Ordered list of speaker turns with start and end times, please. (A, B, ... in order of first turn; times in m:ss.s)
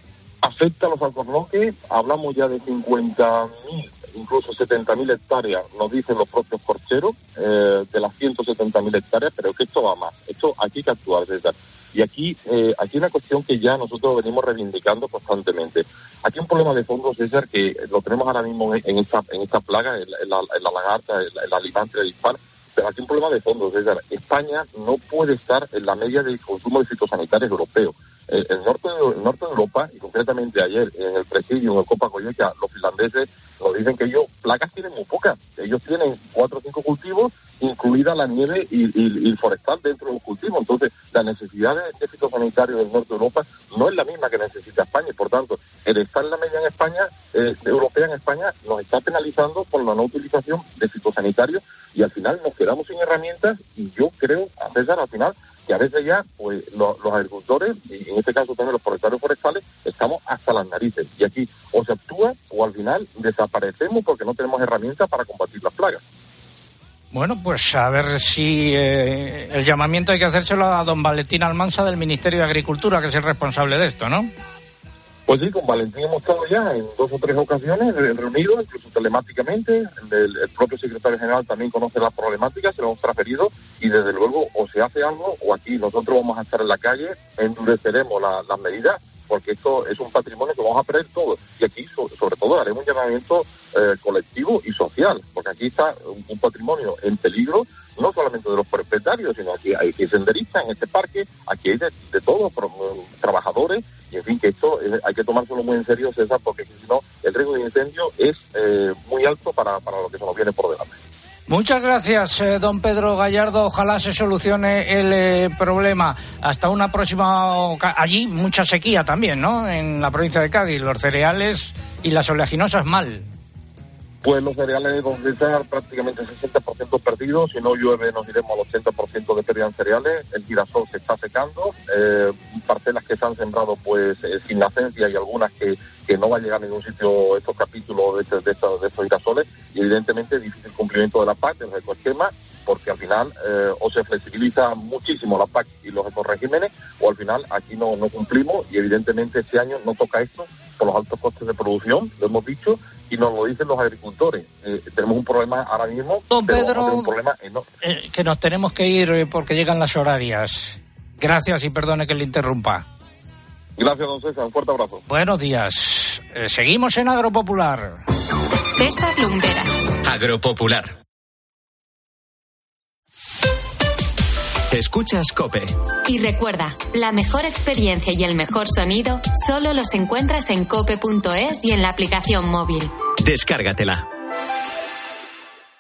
0:00.4-1:06.0 A
1:07.1-1:14.3 B
1:15.3-1:51.0 A
1:51.5-2:03.3 B
2:04.2-2:37.7 A
2:36.3-2:37.1 B
2:37.8-2:42.8 B
2:43.8-2:45.0 A
2:45.1-2:48.0 B
2:48.8-2:49.9 C
2:50.0-2:51.0 D
2:54.7-2:55.7 D
2:56.1-3:02.9 C
3:03.2-3:04.1 D